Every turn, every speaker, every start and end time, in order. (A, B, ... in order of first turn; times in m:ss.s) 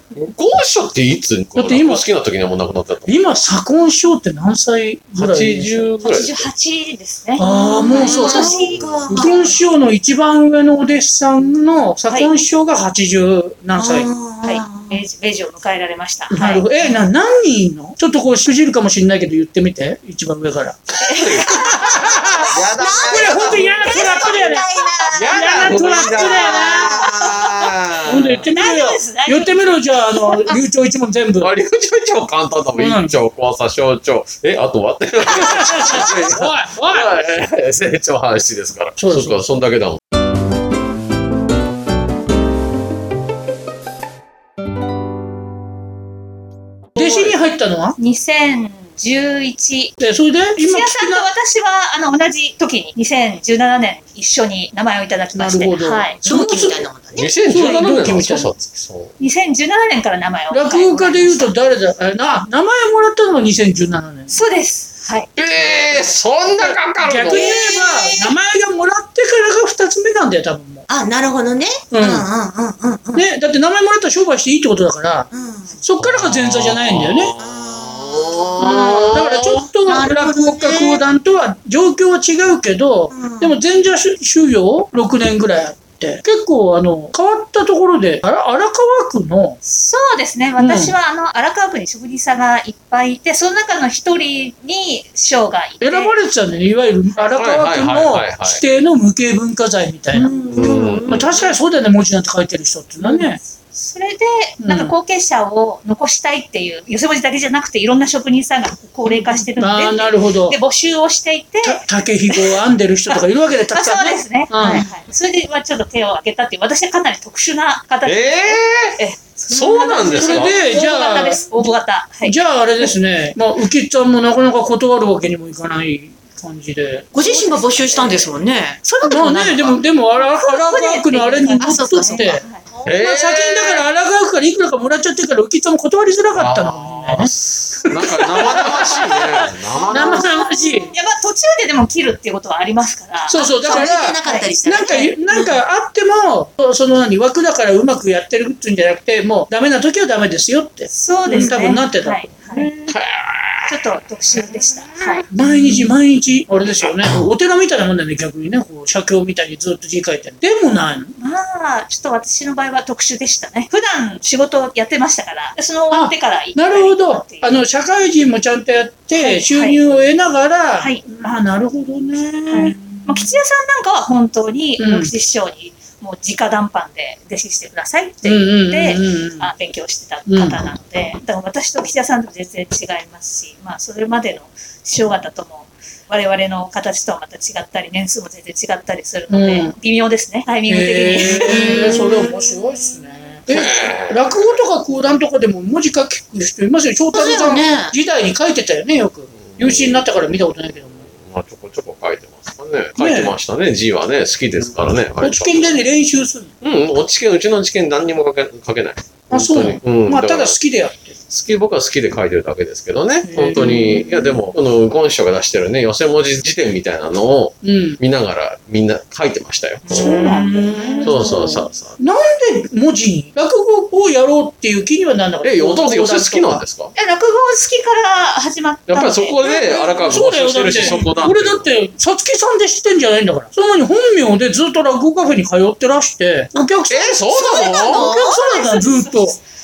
0:00.2-0:03.1 A
0:01.6-0:02.1 B
0:03.1-0:05.9 B
0:05.2-0:06.5 A
0:06.0-0:08.9 C
0:07.4-0:14.1 B
0:07.4-0:09.6 D
0:08.4-0:09.1 A
0:13.8-0:15.0 D
0:14.4-0:16.7 C
0:16.3-0:20.8 B
0:21.0-0:21.4 C
0:21.1-0:22.0 A
0:21.4-0:24.7 B
0:21.6-0:27.6 D
0:22.5-0:24.0 A
0:25.1-0:28.5 A
0:25.3-0:27.1 B
0:28.0-0:31.5 B
0:28.5-0:29.7 C
0:31.4-0:40.0 A
0:32.8-0:33.2 B
0:35.3-0:37.2 B
0:39.0-0:39.4 B
0:47.0-0:48.0 B
0:47.0-0:47.4 A
0:48.0-0:50.0 C
0:50.0-0:51.3 B
0:50.6-0:56.2 C
0:55.4-0:56.8 B
0:56.2-0:57.3 D
0:57.2-0:59.1 A
0:57.5-0:58.5 B
0:59.2-1:01.5 C
1:00.5-1:04.4 B
1:04.3-1:05.3 C
1:05.4-1:07.5 A
1:06.6-1:10.8 B
1:07.3-1:08.3 D
1:10.9-1:13.3 D
1:11.9-1:12.3 B
1:13.1-1:17.3 B
1:15.3-1:15.8 D
1:16.0-1:19.6 A
1:17.4-1:21.0 D
1:18.6-1:29.6 B
1:23.1-1:23.6 D
1:29.6-1:36.2 C
1:30.6-1:31.0 B
1:35.8-1:40.3 B
1:37.4-1:38.6 A
1:40.1-1:41.2 D
1:40.5-1:41.2 A
1:41.1-1:43.4 B
1:43.2-1:52.6 C
1:44.6-1:45.0 B
1:49.1-1:49.5 D
1:49.6-1:50.6 B
1:51.6-1:54.9 B
1:53.7-2:02.4 C
1:54.6-1:54.9 D
1:58.0-2:00.6 A
2:00.1-2:08.3 B
2:07.1-2:09.8 D
2:09.0-2:17.3 B
2:10.2-2:12.6 C
2:11.6-2:12.3 D
2:12.8-2:13.8 A
2:16.4-2:20.3 A
2:17.8-2:20.9 B
2:19.9-2:25.1 C
2:23.3-2:32.6 B
2:23.4-2:25.6 D
2:30.9-2:32.9 C
2:32.9-2:33.8 A
2:33.7-2:35.2 C
2:34.6-2:35.2 D
2:35.3-2:41.2 B
2:41.2-2:47.6 C
2:45.9-2:53.3 B
2:49.2-2:49.8 C
2:52.5-3:12.0 C
2:54.8-2:55.1 B
2:58.2-2:59.5 B
3:00.3-3:00.7 B
3:09.3-3:09.8 B
3:10.7-3:21.1 B
3:11.5-3:12.3 D
3:13.5-3:14.6 A
3:17.1-3:18.0 D
3:19.5-3:25.8 A
3:23.0-3:23.4 B
3:25.2-3:26.6 B
3:26.6-3:30.6 A
3:29.3-3:31.2 B
3:31.3-3:40.1 A
3:33.3-3:34.0 B
3:33.6-3:34.3 D
3:37.6-3:38.0 B
3:39.9-3:41.4 D
3:39.9-3:46.6 B
3:41.0-3:42.0 A
3:45.4-3:46.9 A
3:47.0-3:50.0 C
3:48.9-3:51.7 A
3:49.8-3:57.2 B
3:56.9-3:58.1 A
3:57.3-3:58.8 D
3:57.8-3:59.4 B
3:58.4-3:59.0 C